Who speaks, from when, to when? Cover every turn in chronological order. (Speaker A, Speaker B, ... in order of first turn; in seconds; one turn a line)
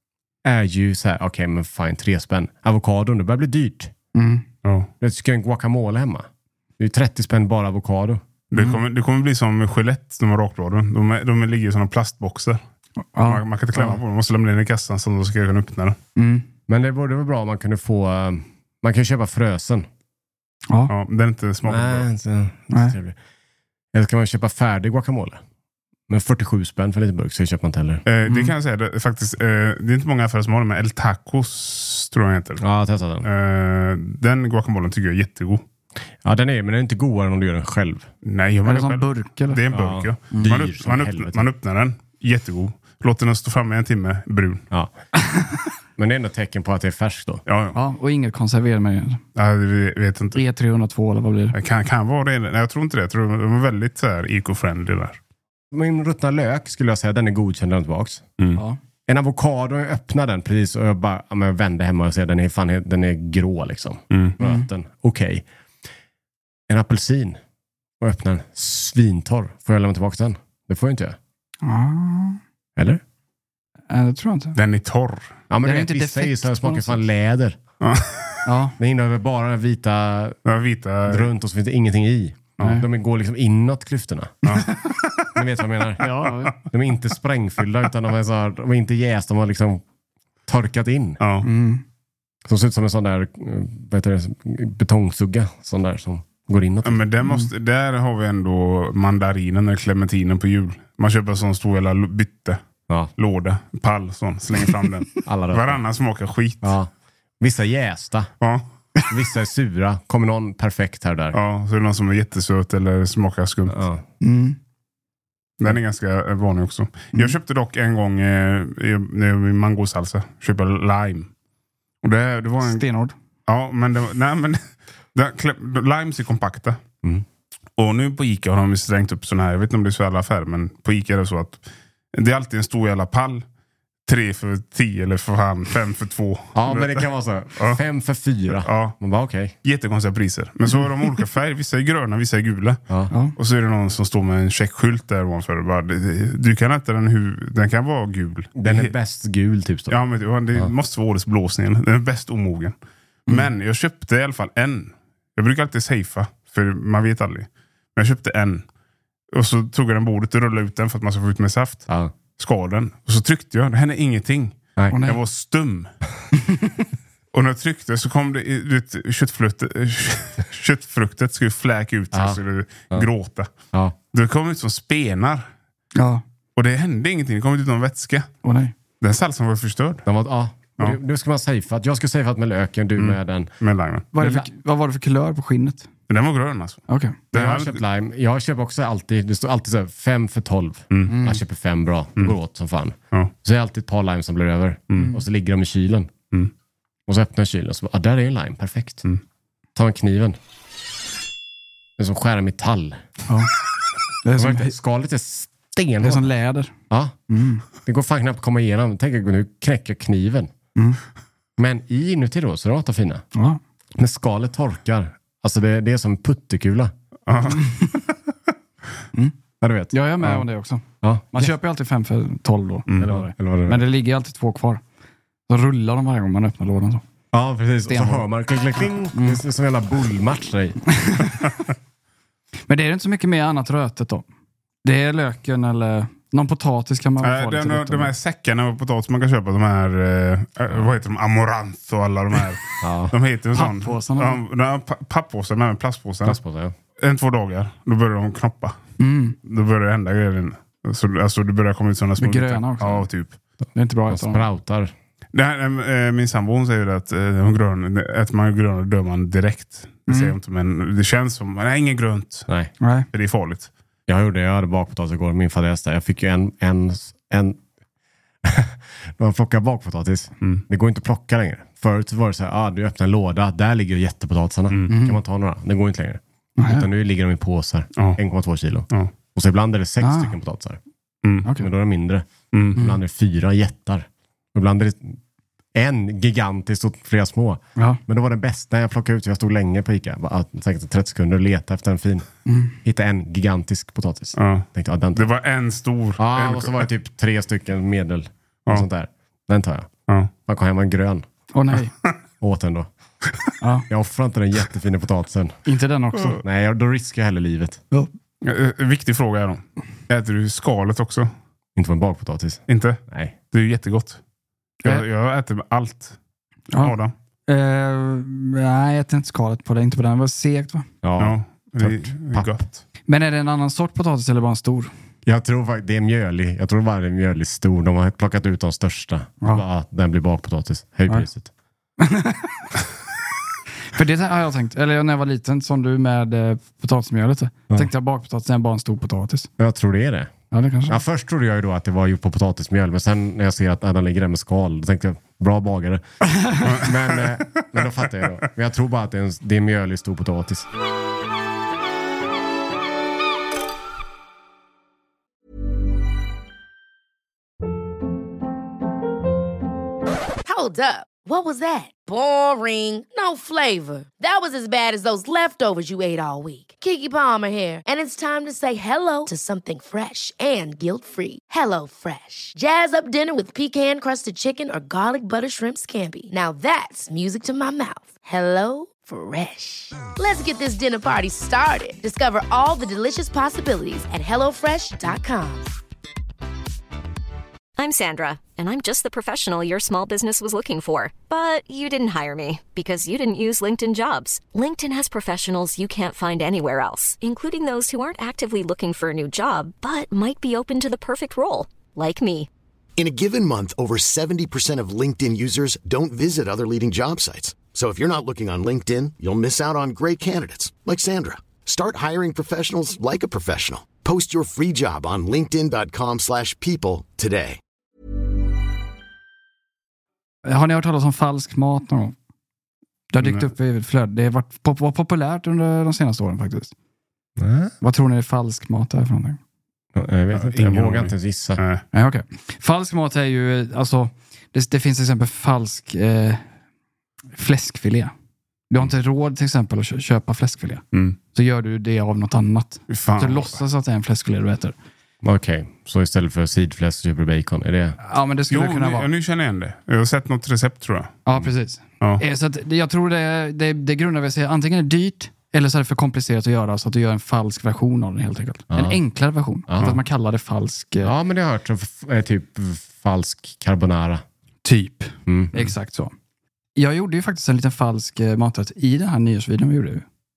Speaker A: 0.4-3.9
Speaker B: 4.1-4.4
Speaker C: 4.6-4.9
Speaker A: 5.0-6.3
Speaker A: 6.8-8.2
Speaker C: 8.5-12.6
Speaker B: 8.5-8.8
Speaker B: 13.1-14.0
Speaker C: 13.2-16.0
Speaker B: 16.1-16.4
Speaker A: 16.7-19.9
Speaker C: 20.9-22.1
Speaker A: 21.6-23.1
Speaker B: 22.7-22.9
Speaker A: 23.9-25.4
Speaker A: 26.1-28.0
Speaker C: 28.1-32.6
Speaker B: 28.3-28.5
Speaker A: 32.6-33.3
Speaker C: 33.2-35.6
Speaker A: 36.2-38.1
Speaker C: 38.2-44.6
Speaker B: 38.6-39.6
Speaker A: 39.7-41.5
Speaker A: 46.0-47.4
Speaker C: 47.5-47.8
Speaker B: 47.7-49.2
Speaker C: 49.4-50.4
Speaker B: 50.3-51.5
Speaker C: 51.5-55.2
Speaker A: 55.7-58.2
Speaker A: 59.1-65.4
Speaker C: 64.1-64.4
Speaker A: 66.7-67.4
Speaker A: 68.0-71.2
Speaker B: 71.6-72.4
Speaker A: 72.8-73.0
Speaker B: 73.9-74.6
Speaker C: 74.5-75.3
Speaker A: 75.5-77.6
Speaker B: 75.6-77.0
Speaker C: 77.8-78.4
Speaker B: 78.4-78.7
Speaker A: 78.8-80.4
Speaker C: 80.5-81.3
Speaker A: 81.1-84.3
Speaker B: 82.6-82.8
Speaker C: 84.4-84.8
Speaker B: 84.5-85.0
Speaker A: 85.3-89.8
Speaker B: 86.0-86.5
Speaker A: 90.5-91.2
Speaker C: 91.2-91.5
Speaker B: 91.4-91.8
Speaker A: 92.5-97.0
Speaker C: 96.8-102.6
Speaker C: 103.2-106.7
Speaker A: 105.2-105.8
Speaker A: 106.6-108.3
Speaker C: 108.4-108.7
Speaker A: 109.1-111.4
Speaker C: 111.3-113.8
Speaker A: 113.7-114.0
Speaker B: 114.2-114.6
Speaker C: 115.6-121.3
Speaker C: 122.0-122.8
Speaker B: 122.6-123.1
Speaker C: 123.5-124.6
Speaker C: 125.1-126.8
Speaker C: 127.8-133.4
Speaker C: 134.1-137.0
Speaker A: 136.5-139.5
Speaker C: 138.5-138.9
Speaker C: 139.6-142.8
Speaker C: 143.3-148.9
Speaker A: 148.6-150.0
Speaker C: 149.9-158.6
Speaker C: 159.3-161.8
Speaker C: 162.4-165.9
Speaker B: 164.9-165.2
Speaker C: 167.3-173.5
Speaker A: 172.1-173.1
Speaker C: 174.1-175.5
Speaker B: 175.9-176.2
Speaker C: 176.6-178.3
Speaker B: 178.4-178.7
Speaker C: 179.0-180.0
Speaker A: 180.1-183.5
Speaker C: 183.0-184.1
Speaker B: 184.1-185.9
Speaker A: 184.2-184.4
Speaker C: 186.1-187.8
Speaker B: 186.9-187.2
Speaker A: 187.3-196.1
Speaker B: 191.1-191.4
Speaker A: 197.1-199.0
Speaker A: 199.7-200.4
Speaker A: 202.0-203.0
Speaker B: 204.2-204.7
Speaker A: 204.3-206.3
Speaker B: 206.0-206.7
Speaker A: 206.9-207.1
Speaker B: 207.3-207.6
Speaker A: 207.8-210.5
Speaker A: 211.6-213.2
Speaker B: 213.3-213.6
Speaker A: 213.9-216.9
Speaker C: 217.3-217.8
Speaker B: 217.4-218.0
Speaker A: 219.6-220.5
Speaker B: 219.9-224.8
Speaker A: 221.0-221.5
Speaker A: 223.0-223.8
Speaker B: 225.5-227.0
Speaker A: 227.3-230.8
Speaker B: 227.9-228.2
Speaker B: 229.1-229.4
Speaker B: 230.9-231.5
Speaker B: 232.7-234.2
Speaker B: 234.8-238.1
Speaker C: 237.2-246.4
Speaker A: 242.8-243.1
Speaker B: 243.5-244.4
Speaker A: 246.2-246.7
Speaker C: 247.0-248.8
Speaker B: 249.0-249.3
Speaker C: 249.4-253.4
Speaker B: 252.2-253.1
Speaker B: 253.7-254.5
Speaker A: 254.1-254.9
Speaker C: 255.3-262.5
Speaker B: 260.1-260.3
Speaker B: 262.8-263.1
Speaker C: 263.1-263.7
Speaker A: 264.1-267.6
Speaker A: 268.4-280.8
Speaker B: 274.9-275.2
Speaker B: 276.6-276.9
Speaker B: 280.0-280.3
Speaker B: 281.4-281.7
Speaker A: 281.5-285.2
Speaker A: 285.7-292.3
Speaker B: 292.4-292.8
Speaker A: 292.8-295.3
Speaker C: 294.4-296.9
Speaker A: 296.2-299.9
Speaker A: 300.4-301.2
Speaker B: 301.5-301.9
Speaker A: 302.4-302.9
Speaker A: 303.9-305.6
Speaker B: 305.6-306.4
Speaker A: 306.4-307.8
Speaker C: 308.4-311.3
Speaker A: 311.8-313.3
Speaker C: 312.7-314.2
Speaker C: 314.8-316.1
Speaker C: 316.8-317.1
Speaker B: 317.5-320.9
Speaker A: 321.0-322.6
Speaker C: 321.2-322.8
Speaker B: 323.1-324.9
Speaker A: 325.2-331.5
Speaker B: 332.0-332.6
Speaker B: 333.9-339.5
Speaker A: 339.6-340.3
Speaker B: 340.5-341.0
Speaker A: 340.9-350.7
Speaker B: 346.3-346.6
Speaker C: 346.6-347.3
Speaker D: 360.4-385.7
Speaker E: 387.8-402.5
Speaker F: 403.0-417.6
Speaker B: 420.4-422.1
Speaker B: 423.1-426.7
Speaker C: 423.2-423.5
Speaker A: 427.4-427.7
Speaker B: 427.8-429.4
Speaker A: 429.9-431.6
Speaker C: 430.3-431.8
Speaker B: 431.9-436.4
Speaker B: 437.4-438.1
Speaker B: 438.7-444.7
Speaker C: 442.9-443.6
Speaker A: 445.2-448.0
Speaker B: 448.0-449.1
Speaker C: 448.5-451.1
Speaker B: 451.2-461.1
Speaker A: 458.7-459.0
Speaker A: 459.7-460.0
Speaker A: 461.0-464.2
Speaker B: 464.6-466.1
Speaker A: 465.3-465.7
Speaker B: 466.8-470.0